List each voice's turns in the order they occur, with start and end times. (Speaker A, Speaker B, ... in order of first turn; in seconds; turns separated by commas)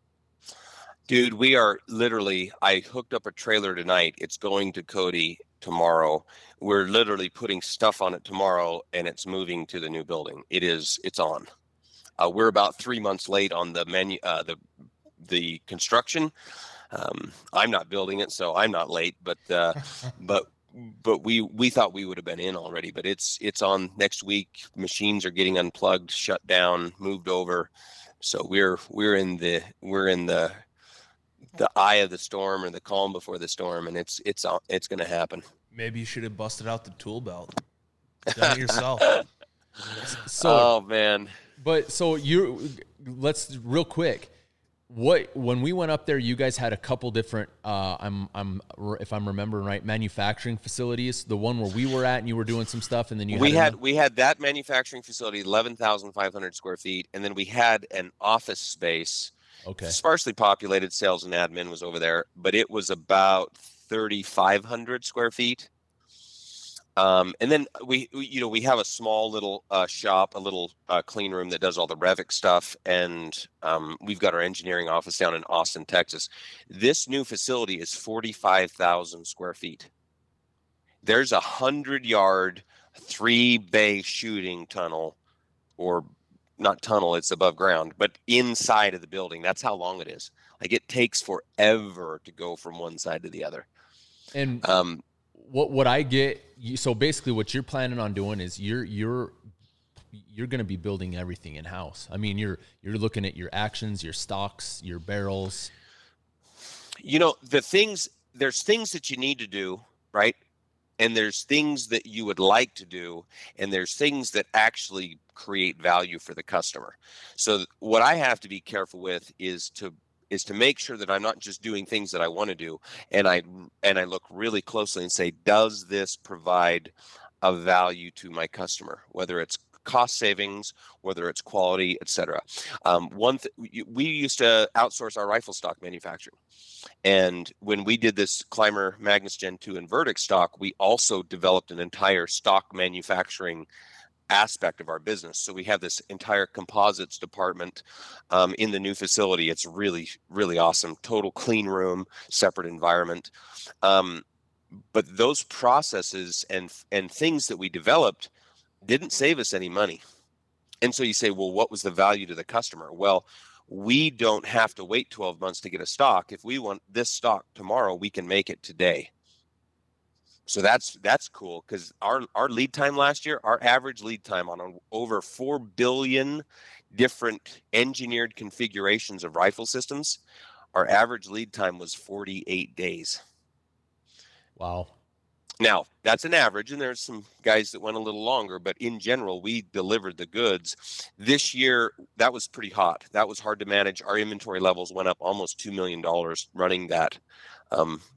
Speaker A: 1.1-11.4, Speaker A: 12.2-14.6, Speaker A: 15.2-16.3, Speaker A: 16.9-27.7, Speaker A: 28.2-30.6, Speaker A: 31.5-35.4, Speaker B: 35.7-37.5, Speaker B: 38.3-39.2, Speaker C: 40.1-40.7, Speaker A: 40.4-41.3, Speaker C: 41.6-44.3, Speaker C: 44.9-53.8, Speaker A: 53.3-59.3, Speaker C: 59.6-60.0, Speaker A: 59.8-65.7, Speaker A: 67.0-79.9, Speaker A: 81.0-85.2, Speaker A: 85.8-86.1, Speaker A: 86.6-93.7, Speaker C: 94.3-94.6, Speaker A: 94.6-95.0, Speaker C: 95.3-99.4, Speaker C: 100.1-105.7, Speaker A: 107.0-110.3, Speaker A: 111.0-136.3, Speaker A: 137.0-143.7, Speaker A: 144.3-153.3, Speaker A: 153.8-154.2, Speaker A: 154.9-158.3, Speaker A: 158.8-160.0, Speaker A: 160.8-169.1, Speaker A: 170.5-180.2, Speaker A: 180.7-183.2, Speaker C: 184.6-184.9, Speaker A: 185.6-197.2, Speaker A: 197.7-198.0